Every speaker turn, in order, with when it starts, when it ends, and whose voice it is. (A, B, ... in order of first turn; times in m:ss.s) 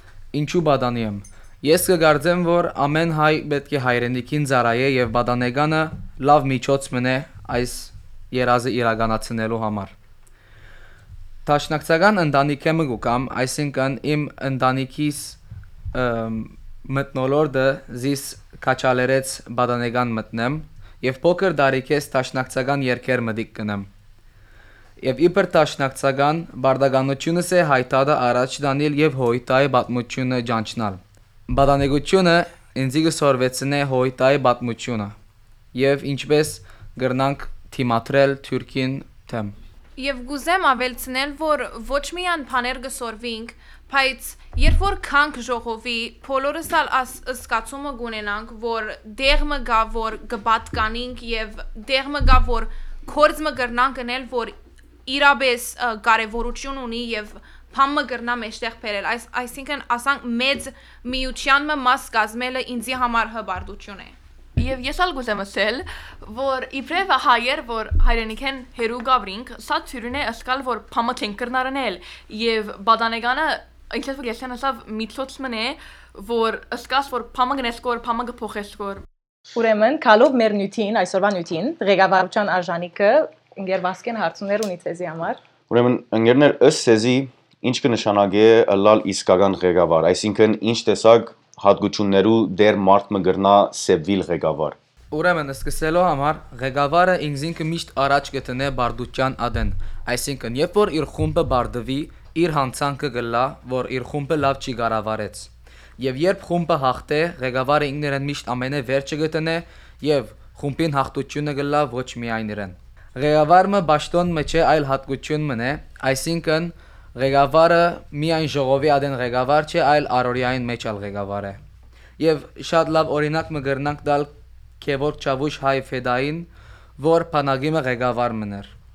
0:00.3-0:09.9 A
0:11.5-0:15.4 A
0:15.9-0:23.9 A
0:25.0-0:35.2 A
0:35.7-0:39.5 A
0:40.0-0:54.5 B
0:55.1-1:04.2 B
1:04.6-1:19.0 C
1:19.5-1:25.4 D
1:25.7-1:34.8 E
1:35.1-2:01.6 A
2:02.2-2:04.3 A
2:04.8-2:08.7 A